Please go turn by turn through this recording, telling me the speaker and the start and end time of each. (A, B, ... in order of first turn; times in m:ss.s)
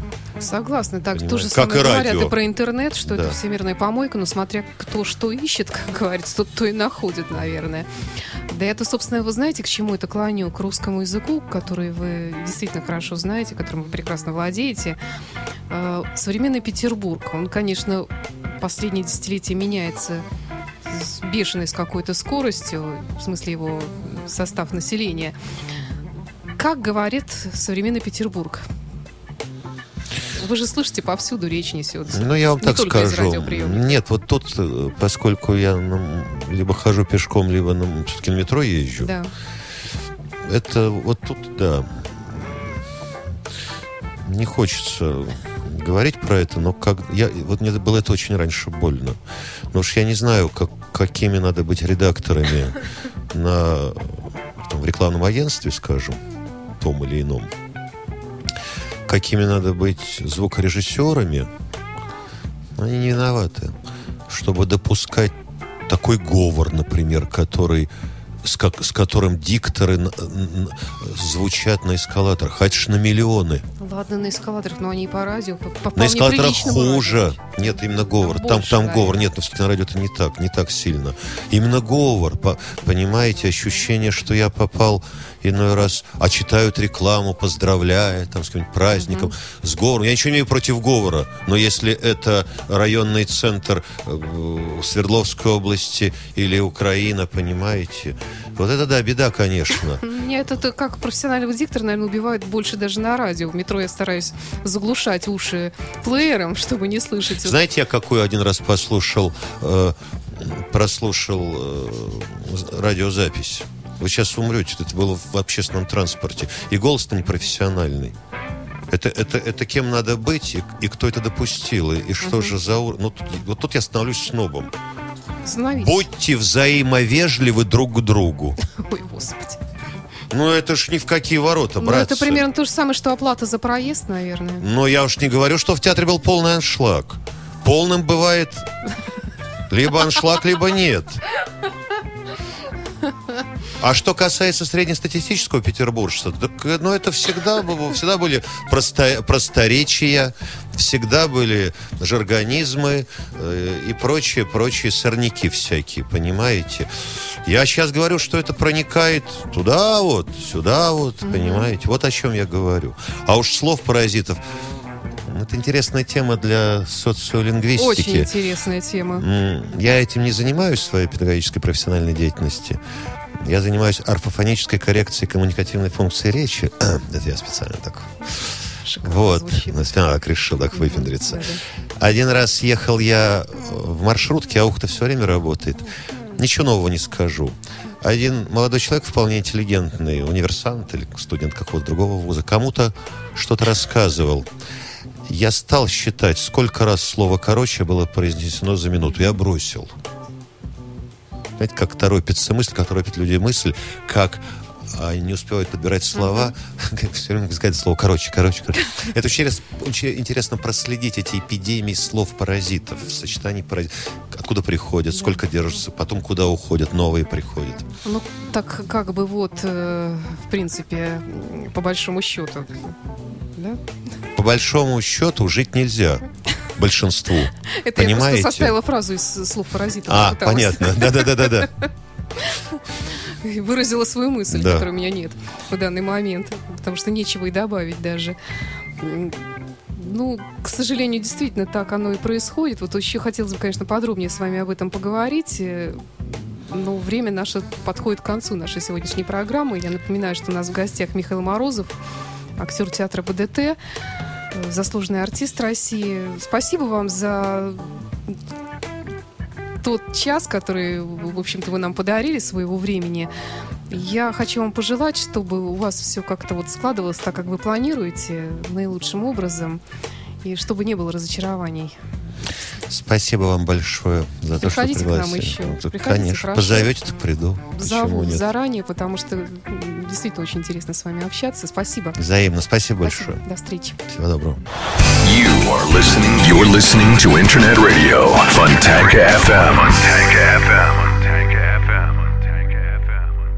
0:00.4-0:07.9 A
0:01.1-0:02.4 B
0:03.0-0:03.4 B
0:08.5-0:15.0 A
0:15.7-0:20.2 A
0:20.8-0:25.3 A
0:26.6-0:28.6 A
0:30.4-0:34.0 A
0:32.1-0:39.1 B
0:39.0-0:39.3 A
0:40.4-0:42.8 B
0:44.2-0:49.2 B
0:49.7-0:56.2 B
0:56.8-0:57.5 B
0:59.1-1:01.5 B
1:02.8-1:03.7 B
1:04.3-1:05.3 B
1:05.8-1:07.9 B
1:08.4-1:13.6 B
1:13.8-1:17.4 A
1:15.9-1:40.0 B
1:18.2-1:19.2 A
1:28.9-1:29.3 A
1:40.0-1:47.6 A
1:47.4-1:58.2 B
1:58.9-2:04.7 B
2:02.2-2:02.6 A
2:05.4-2:06.0 A
2:05.7-2:08.6 B
2:08.6-2:09.6 A
2:10.3-2:12.4 B
2:11.8-2:14.6 A
2:14.6-2:18.7 B
2:19.7-2:21.2 B
2:23.8-2:44.4 B
2:41.2-2:41.7 A
2:45.1-2:48.3 B
2:47.8-2:49.3 A
2:49.2-2:52.8 B
2:53.4-3:14.5 B
2:58.8-2:59.9 A
3:00.7-3:01.6 A
3:15.3-3:19.9 B
3:21.6-3:37.9 B
3:38.0-3:43.8 A
3:44.3-3:48.8 B
3:47.6-3:51.8 A
3:50.0-3:51.7 B
3:52.4-3:52.8 A
3:53.4-3:58.4 A
3:54.5-3:54.9 B
3:59.0-3:59.4 A
3:59.9-4:11.9 A
4:12.6-4:13.8 A
4:14.5-4:18.3 A
4:19.8-4:23.3 A
4:23.9-4:29.8 A
4:30.4-4:32.0 A
4:32.9-4:38.4 B
4:34.6-4:36.9 A
4:37.8-4:42.2 A
4:42.2-4:43.4 B
4:43.0-4:44.0 A
4:44.1-4:44.6 B
4:45.2-4:53.0 C